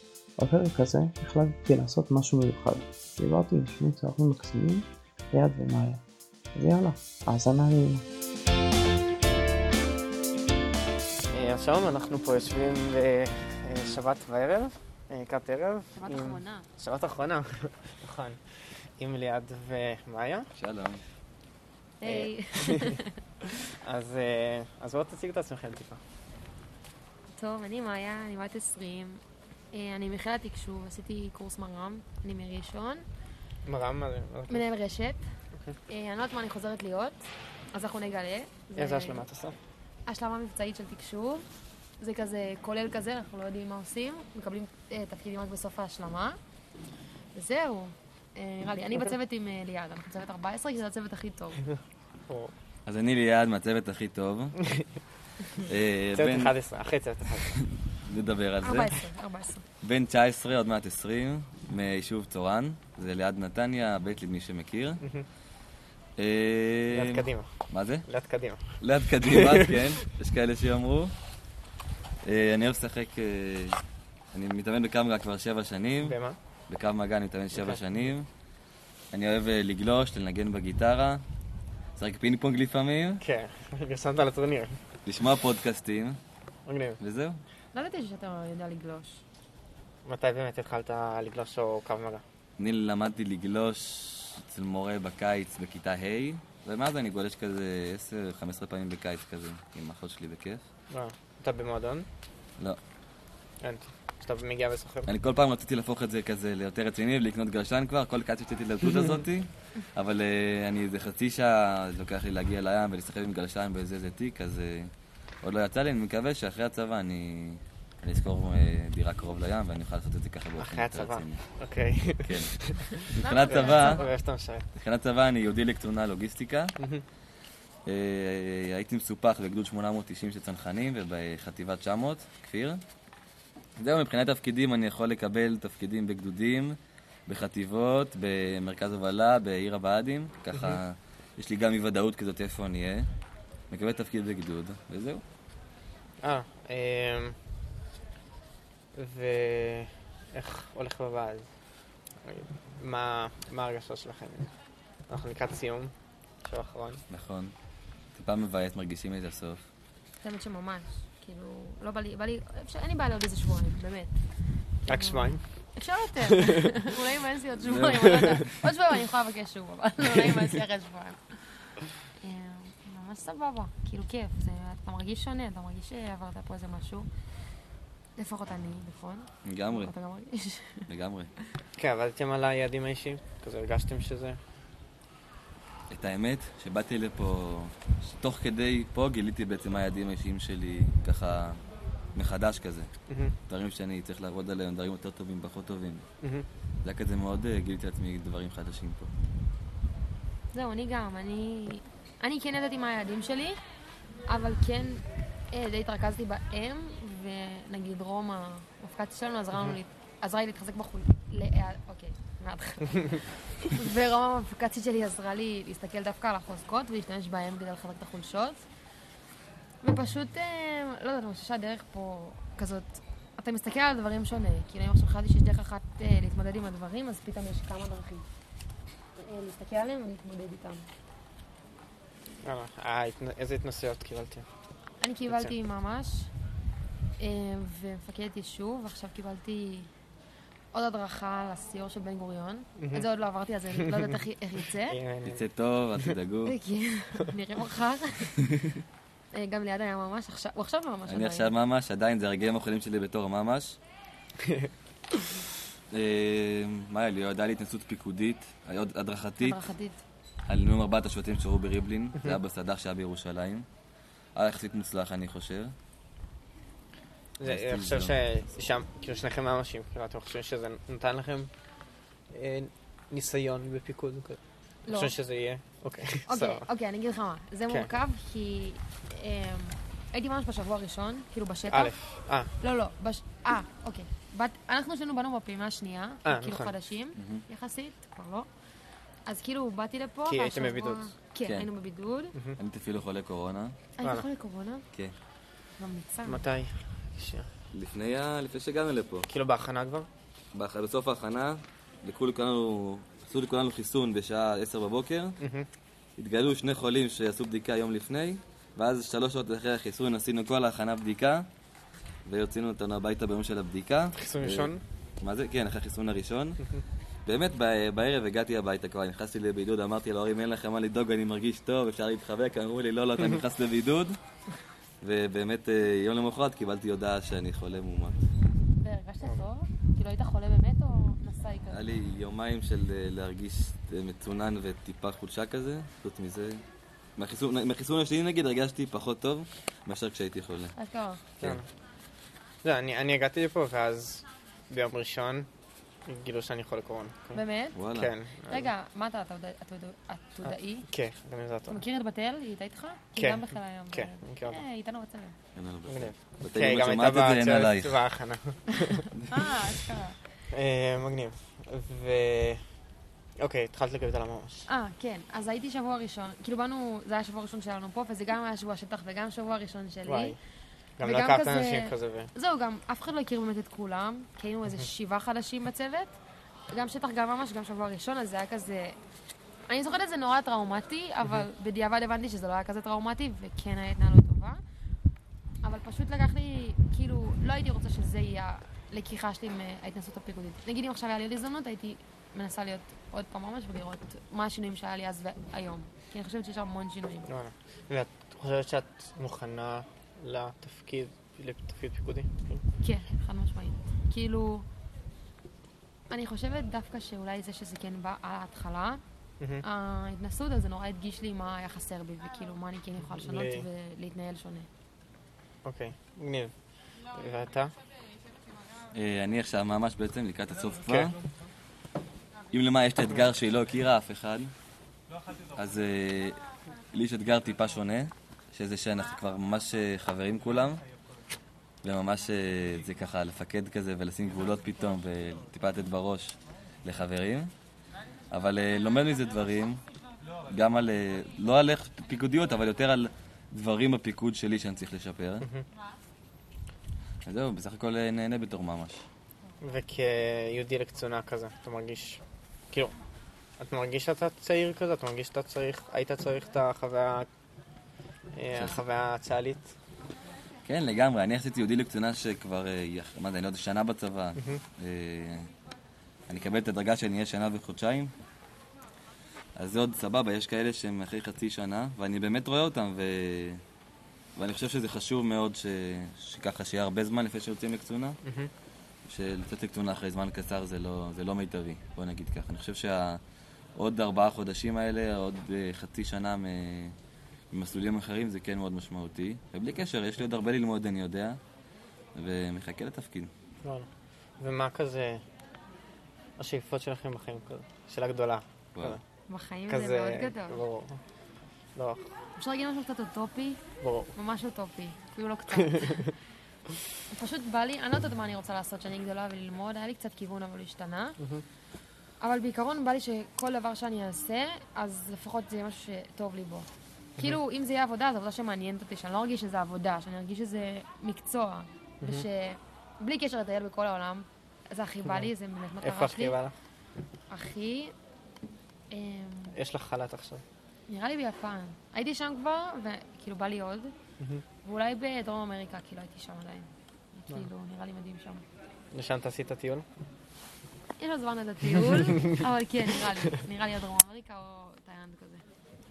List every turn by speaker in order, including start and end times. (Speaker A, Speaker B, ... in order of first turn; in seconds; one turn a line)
Speaker A: 0.4-6.0
Speaker A: 6.5-8.1
Speaker B: 11.3-18.4
Speaker C: 15.9-16.7
Speaker B: 19.0-20.5
Speaker D: 20.6-21.0
Speaker C: 22.0-23.2
Speaker B: 22.1-22.9
Speaker B: 23.8-26.0
Speaker C: 27.3-33.0
Speaker B: 33.6-34.7
Speaker C: 34.5-35.2
Speaker C: 35.9-37.2
Speaker C: 37.7-39.2
Speaker B: 38.8-39.6
Speaker C: 40.1-41.5
Speaker C: 42.0-46.4
Speaker C: 47.3-51.6
Speaker B: 52.3-52.5
Speaker D: 52.9-54.6
Speaker D: 55.6-56.5
Speaker B: 56.1-57.5
Speaker D: 57.5-59.0
Speaker C: 58.6-59.6
Speaker D: 59.8-65.0
Speaker B: 65.0-65.3
Speaker D: 66.2-68.1
Speaker B: 66.9-67.5
Speaker B: 68.1-68.8
Speaker D: 68.8-71.1
Speaker B: 69.3-69.8
Speaker D: 72.2-73.8
Speaker D: 74.3-76.2
Speaker B: 76.0-76.4
Speaker D: 76.7-78.3
Speaker B: 77.5-77.8
Speaker D: 79.1-81.2
Speaker D: 82.0-83.2
Speaker B: 83.2-84.8
Speaker D: 85.1-86.2
Speaker B: 86.7-87.0
Speaker D: 87.0-87.4
Speaker C: 87.7-89.2
Speaker B: 90.1-92.2
Speaker D: 92.6-100.6
Speaker B: 100.9-102.1
Speaker B: 103.6-105.1
Speaker D: 105.1-114.9
Speaker D: 115.4-121.5
Speaker B: 120.6-124.7
Speaker D: 122.2-124.1
Speaker C: 122.9-124.1
Speaker D: 124.8-126.8
Speaker B: 126.8-127.0
Speaker D: 127.9-132.8
Speaker D: 133.8-143.1
Speaker D: 143.7-145.2
Speaker B: 146.2-147.3
Speaker B: 148.9-151.5
Speaker B: 152.2-154.5
Speaker B: 155.1-155.9
Speaker B: 156.4-157.0
Speaker D: 157.1-157.5
Speaker D: 158.1-159.7
Speaker C: 160.2-164.2
Speaker B: 164.9-165.4
Speaker C: 164.9-177.1
Speaker B: 166.3-166.7
Speaker D: 167.7-168.4
Speaker C: 178.2-180.9
Speaker D: 179.4-179.9
Speaker D: 180.9-181.3
Speaker B: 181.8-184.4
Speaker D: 185.9-191.6
Speaker D: 192.2-192.9
Speaker B: 193.1-193.3
Speaker D: 193.5-196.0
Speaker B: 196.2-196.5
Speaker D: 196.8-199.1
Speaker C: 200.5-203.6
Speaker C: 204.2-218.6
Speaker C: 219.8-228.3
Speaker C: 229.2-230.9
Speaker B: 232.4-234.5
Speaker C: 235.0-236.3
Speaker B: 235.3-235.5
Speaker C: 237.2-239.9
Speaker C: 240.7-245.0
Speaker B: 242.8-243.1
Speaker B: 243.7-244.1
Speaker B: 244.8-245.4
Speaker D: 245.2-246.6
Speaker C: 246.5-248.3
Speaker D: 248.4-248.8
Speaker C: 249.3-251.5
Speaker D: 251.1-253.8
Speaker B: 254.4-254.7
Speaker D: 255.9-259.6
Speaker C: 259.4-260.0
Speaker D: 260.5-263.7
Speaker D: 264.4-265.7
Speaker B: 267.4-271.5
Speaker D: 267.4-268.2
Speaker B: 272.3-276.6
Speaker C: 274.9-275.1
Speaker C: 276.3-282.0
Speaker B: 277.7-277.9
Speaker B: 281.7-282.5
Speaker C: 282.6-288.5
Speaker B: 286.2-286.8
Speaker D: 287.1-287.4
Speaker C: 289.3-292.4
Speaker B: 290.3-291.1
Speaker D: 292.6-293.8
Speaker C: 294.0-294.9
Speaker C: 295.8-296.5
Speaker B: 296.3-297.5
Speaker D: 297.7-299.3
Speaker B: 299.3-300.1
Speaker D: 300.5-305.4
Speaker B: 305.4-305.7
Speaker D: 306.2-311.5
Speaker D: 312.3-316.7
Speaker B: 314.1-314.8
Speaker D: 317.3-324.2
Speaker D: 325.0-328.3
Speaker C: 328.8-331.8
Speaker D: 331.7-336.6
Speaker D: 337.2-340.8
Speaker C: 340.8-341.2
Speaker B: 341.4-341.7
Speaker B: 342.6-345.5
Speaker B: 346.1-348.7
Speaker C: 347.3-347.8
Speaker D: 347.8-348.1
Speaker C: 348.5-350.9
Speaker B: 350.9-351.8
Speaker C: 351.7-355.4
Speaker B: 353.2-354.6
Speaker D: 355.6-358.0
Speaker B: 355.9-359.1
Speaker C: 359.3-360.2
Speaker B: 360.5-362.6
Speaker B: 363.4-364.7
Speaker C: 364.7-370.4
Speaker B: 370.1-370.4
Speaker B: 371.0-372.3
Speaker C: 371.0-376.1
Speaker C: 376.7-379.0
Speaker C: 379.7-384.6
Speaker C: 385.6-397.3
Speaker B: 397.3-402.6
Speaker C: 402.8-404.7
Speaker C: 406.1-409.0
Speaker B: 409.4-409.6
Speaker C: 409.6-414.7
Speaker B: 413.1-413.7
Speaker B: 415.6-416.5
Speaker B: 417.1-417.7
Speaker D: 418.9-421.2
Speaker D: 422.5-424.5
Speaker D: 425.5-426.4
Speaker D: 426.9-430.8
Speaker D: 431.8-437.5
Speaker D: 438.3-439.8
Speaker D: 440.5-445.5
Speaker D: 447.3-449.0
Speaker B: 449.6-452.9
Speaker B: 453.6-457.3
Speaker B: 458.3-459.7
Speaker D: 458.5-458.8
Speaker D: 460.6-465.5
Speaker B: 464.4-464.6
Speaker D: 466.3-468.1
Speaker D: 469.6-473.6
Speaker D: 474.4-478.2
Speaker B: 478.2-478.5
Speaker D: 479.1-483.2
Speaker D: 483.8-486.9
Speaker D: 487.5-491.4
Speaker D: 492.1-493.3
Speaker B: 493.6-493.9
Speaker B: 494.4-495.2
Speaker B: 496.4-499.0
Speaker C: 499.3-500.6
Speaker B: 499.7-501.0
Speaker B: 501.8-502.1
Speaker C: 502.4-503.6
Speaker B: 503.8-504.1
Speaker C: 504.1-506.1
Speaker C: 507.1-511.2
Speaker C: 512.2-526.4
Speaker B: 522.0-522.3
Speaker B: 525.8-526.5
Speaker C: 527.3-527.9
Speaker C: 528.9-529.5
Speaker B: 529.5-530.4
Speaker C: 530.9-533.9
Speaker C: 534.6-538.4
Speaker B: 538.9-539.9
Speaker C: 541.0-545.4